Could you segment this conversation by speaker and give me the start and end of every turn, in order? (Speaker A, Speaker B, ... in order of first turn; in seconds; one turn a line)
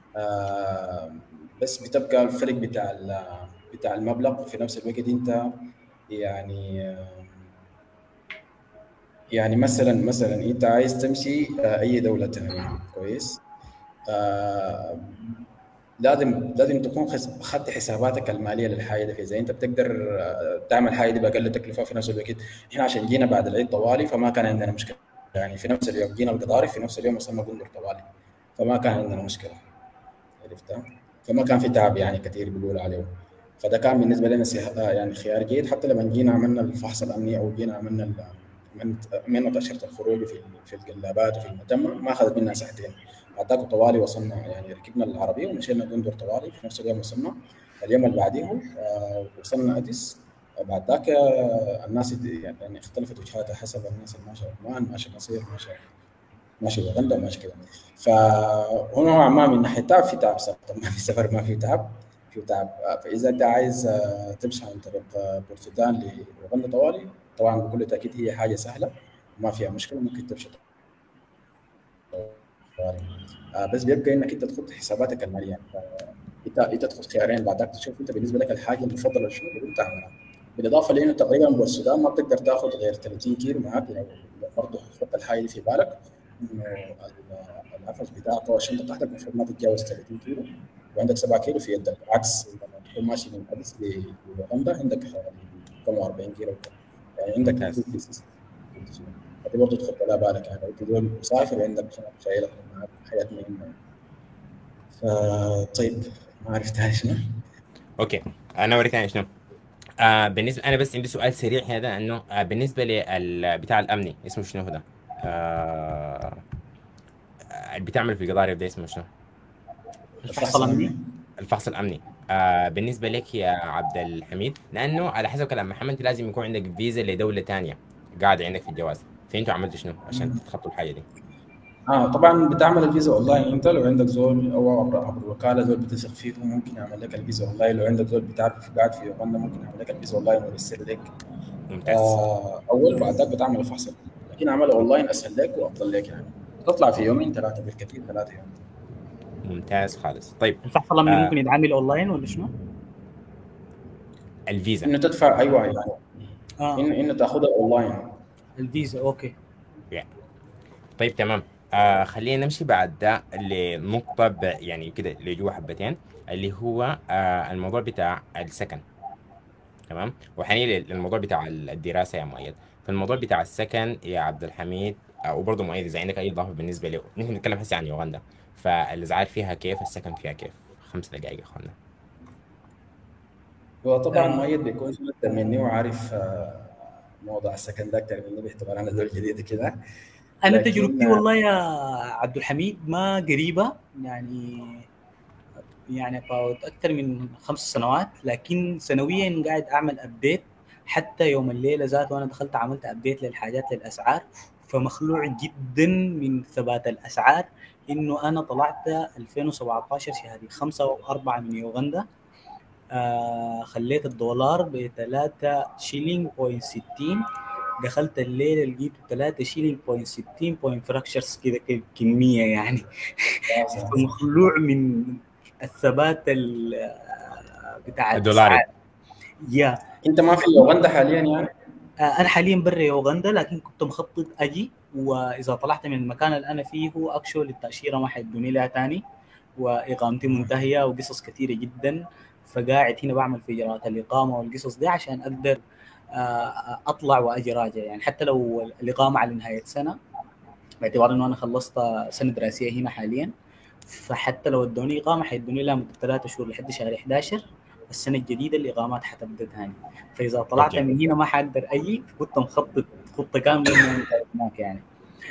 Speaker A: 0.2-5.4
Speaker A: 6.1-7.5
Speaker A: 9.3-13.4
Speaker A: 14.1-15.4
Speaker A: 16.0-29.6
Speaker A: 30.4-55.9
Speaker A: 56.6-70.6
Speaker A: 72.1-103.8
Speaker A: 105.0-107.2
Speaker B: 108.0-109.3
Speaker B: 110.0-116.4
Speaker B: 117.5-119.1
Speaker C: 120.2-120.9
Speaker A: 120.2-121.1
Speaker B: 121.4-131.0
Speaker A: 130.1-130.4
Speaker A: 131.9-141.1
Speaker B: 141.7-142.2
Speaker A: 141.9-148.6
Speaker B: 149.4-151.3
Speaker C: 150.6-152.5
Speaker B: 154.5-154.9
Speaker A: 154.8-156.2
Speaker C: 156.6-156.9
Speaker A: 156.7-158.1
Speaker C: 158.6-159.3
Speaker B: 161.0-168.8
Speaker B: 169.9-181.7
Speaker A: 183.8-189.8
Speaker C: 184.1-184.4
Speaker C: 190.4-194.9
Speaker A: 190.5-191.2
Speaker C: 195.9-212.1
Speaker C: 212.9-217.2
Speaker C: 217.8-228.7
Speaker A: 223.5-224.1
Speaker B: 228.1-228.6
Speaker C: 229.4-229.8
Speaker A: 230.0-231.5
Speaker C: 232.1-239.0
Speaker C: 239.6-245.6
Speaker C: 246.1-250.0
Speaker C: 250.8-253.3
Speaker C: 253.9-264.8
Speaker B: 260.6-261.1